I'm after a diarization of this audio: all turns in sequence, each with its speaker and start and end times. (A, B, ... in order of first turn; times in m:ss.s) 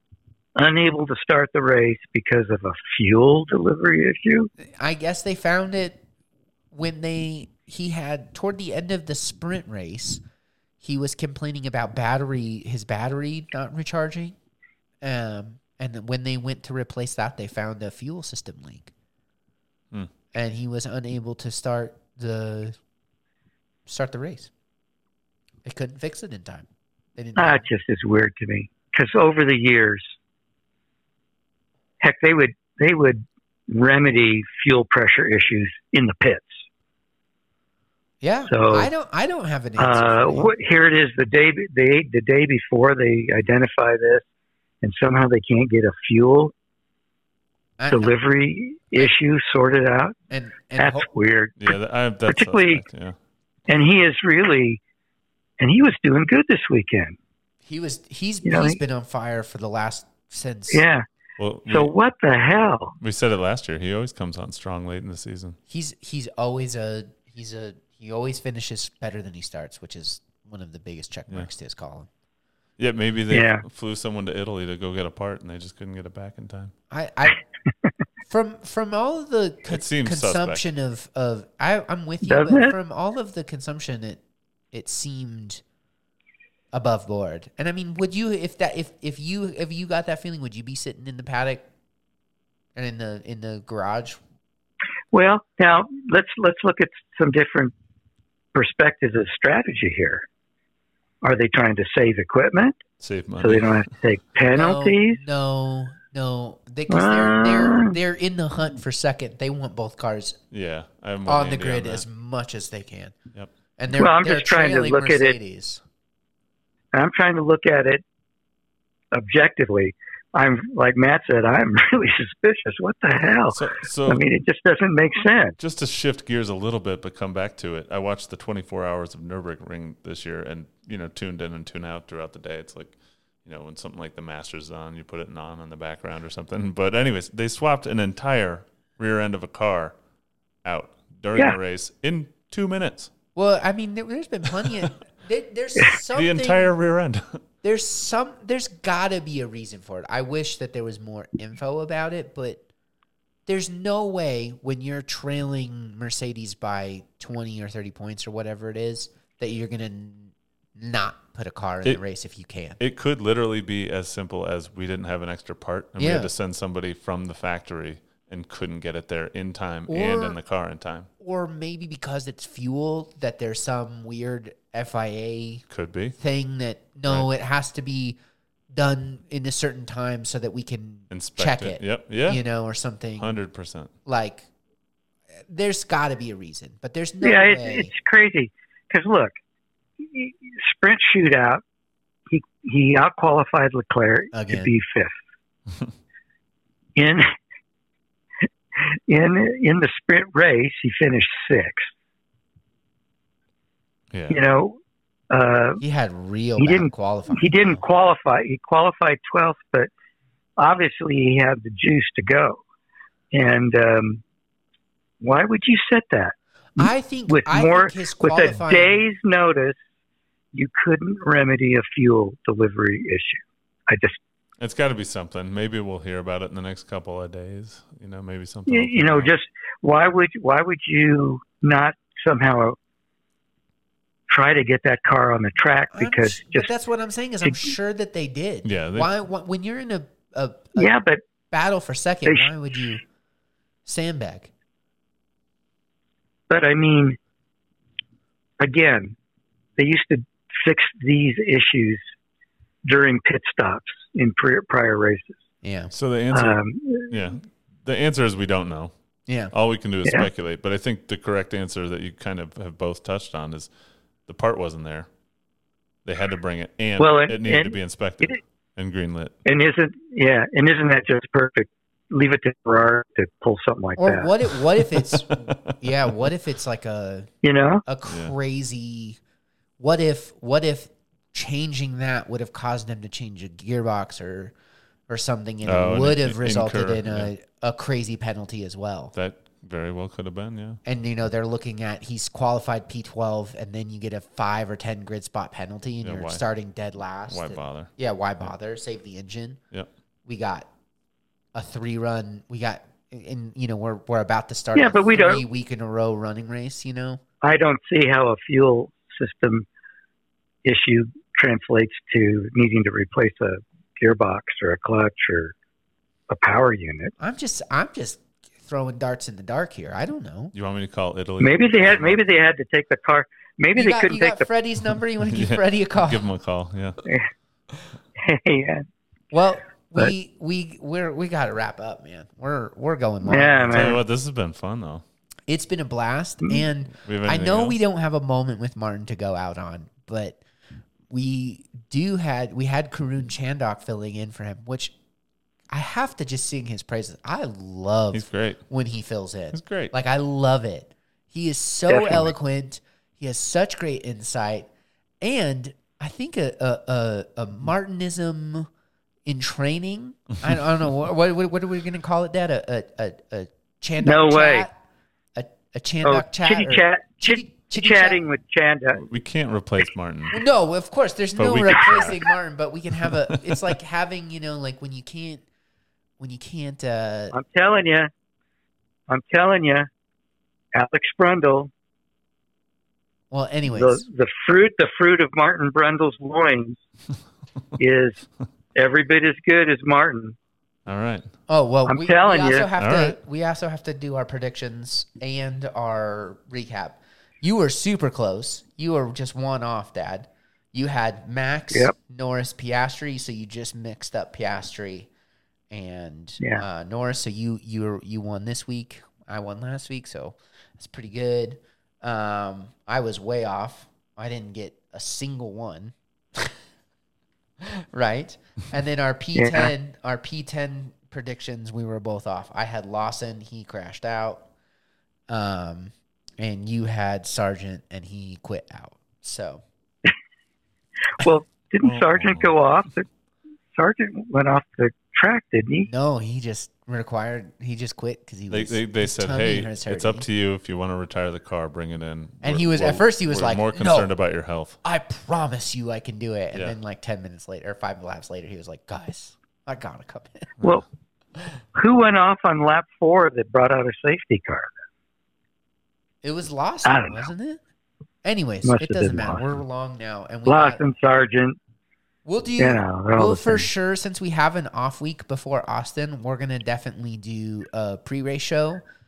0:00.6-0:04.5 A
0:04.7-0:06.0 B
0:06.7-0:10.2 B
0:10.8-0:14.4 B
0:15.0-0:18.9 B
0:20.3-0:22.8 B
0:23.9-0:24.5 B
0:25.6-0:27.6 B
0:27.4-0:30.1 A
0:32.0-0:36.6 A
0:38.2-0:40.5 B
0:38.5-0:38.9 A
0:39.8-0:44.2 A
0:44.8-0:46.5 A
0:47.8-0:48.2 B
0:47.9-0:50.2 A
0:50.3-0:51.1 B
0:50.8-0:51.7 A
0:51.6-0:53.2 C
0:52.3-0:52.8 A
0:53.7-0:54.8 A
0:55.6-0:57.2 A
0:57.6-1:00.8 B
0:58.4-0:58.8 A
1:00.7-1:01.0 A
1:01.4-1:01.9 C
1:01.7-1:03.0 A
1:03.0-1:05.6 C
1:05.7-1:12.1 B
1:12.8-1:16.7 C
1:13.3-1:13.6 A
1:16.9-1:17.4 B
1:18.2-1:24.2 B
1:19.7-1:20.6 C
1:22.3-1:22.8 A
1:24.7-1:25.6 B
1:26.7-1:31.6 B
1:32.8-1:34.2 B
1:35.1-1:37.7 A
1:38.6-1:40.2 A
1:41.2-1:42.8 A
1:43.0-1:43.9 C
1:43.4-1:45.2 A
1:44.5-1:50.4 B
1:46.9-1:48.0 A
1:50.5-1:52.0 C
1:51.3-1:53.2 B
1:53.8-1:55.8 B
1:53.9-1:55.4 A
1:56.9-1:58.0 A
1:59.1-2:05.6 A
2:03.5-2:04.2 C
2:05.6-2:20.0 C
2:20.6-2:23.1 C
2:23.4-2:26.7 B
2:26.1-2:27.4 C
2:27.6-2:32.6 B
2:33.5-2:42.8 B
2:42.8-2:51.1 C
2:46.0-2:46.3 B
2:49.9-2:50.4 B
2:51.2-2:55.6 B
2:55.7-2:56.2 C
2:56.2-2:58.2 B
2:58.7-3:03.4 B
3:01.1-3:02.4 C
3:03.2-3:03.9 C
3:04.0-3:04.4 B
3:05.5-3:07.9 B
3:07.2-3:09.4 A
3:10.0-3:11.6 A
3:12.3-3:15.1 A
3:14.3-3:14.8 B
3:17.0-3:17.3 A
3:19.1-3:21.9 A
3:24.1-3:24.4 C
3:24.3-3:24.8 A
3:25.3-3:25.8 A
3:25.8-3:27.8 B
3:26.6-3:29.9 A
3:30.6-3:32.6 A
3:33.3-3:34.2 A
3:35.2-3:39.8 A
3:36.8-3:39.1 B
3:40.5-3:44.2 A
3:44.6-3:49.3 C
3:48.7-3:52.8 A
3:54.3-3:56.7 A
3:55.9-4:00.9 B
3:58.6-3:59.1 C
4:00.8-4:01.2 A
4:01.5-4:03.0 B
4:03.9-4:04.5 B
4:06.5-4:07.2 A
4:08.6-4:09.2 A
4:09.8-4:12.0 A
4:12.8-4:15.4 A
4:15.6-4:15.9 B
4:15.9-4:18.9 C
4:16.3-4:17.2 A
4:19.3-4:19.5 B
4:19.5-4:23.7 C
4:24.3-4:25.1 C
4:26.0-4:29.4 C
4:27.0-4:28.4 A
4:29.4-4:34.3 A
4:34.0-4:37.3 B
4:34.8-4:36.0 C
4:37.4-4:37.8 A
4:37.8-4:39.2 B
4:38.1-4:38.4 C
4:39.8-4:44.5 B
4:45.1-4:49.1 B
4:45.6-4:47.3 C
4:49.1-4:50.8 C
4:50.8-4:59.6 B
4:56.0-4:56.4 C
4:57.3-4:57.9 C
5:00.3-5:00.7 B
5:01.5-5:07.2 B
5:04.8-5:05.4 A
5:07.4-5:09.7 A
5:10.6-5:15.5 A
5:16.3-5:17.1 A
5:17.2-5:20.5 B
5:20.5-5:22.2 C
5:21.4-5:24.5 A
5:23.8-5:26.3 B
5:25.3-5:27.0 C
5:27.0-5:27.3 A
5:28.2-5:28.9 A
5:29.3-5:34.0 B
5:33.2-5:34.0 A
5:33.7-5:35.0 C
5:35.5-5:40.4 B
5:37.0-5:37.8 C
5:41.1-5:44.9 B
5:45.7-5:54.7 B
5:48.1-5:48.6 C
5:49.5-5:49.9 C
5:51.9-5:52.3 A
5:55.2-5:58.7 B
5:59.3-6:04.7 B
6:04.0-6:04.7 A
6:05.4-6:08.2 B
6:06.0-6:09.0 A
6:09.0-6:10.4 C
6:10.3-6:15.4 B
6:11.4-6:12.3 C
6:13.1-6:13.7 C
6:16.2-6:17.4 B
6:17.3-6:18.1 A
6:19.1-6:19.9 A
6:20.7-6:21.7 A
6:23.3-6:24.0 B
6:23.7-6:26.8 A
6:27.8-6:30.4 A
6:30.9-6:31.3 C
6:31.5-6:45.1 B
6:31.9-6:32.7 A
6:32.8-6:33.2 C
6:45.7-6:56.6 B
6:57.9-7:04.5 B
6:59.4-6:59.7 A
7:05.3-7:09.6 B
7:11.2-7:13.1 A
7:11.8-7:12.6 C
7:13.7-7:15.9 A
7:15.8-7:20.3 B
7:18.5-7:24.8 C
7:22.4-7:24.1 B
7:24.8-7:30.6 B
7:31.8-7:34.7 A
7:36.2-7:37.6 B
7:36.8-7:37.3 A
7:38.2-7:40.8 B
7:38.6-7:39.4 A
7:40.5-7:41.6 A
7:42.3-7:48.8 B
7:42.6-7:43.7 A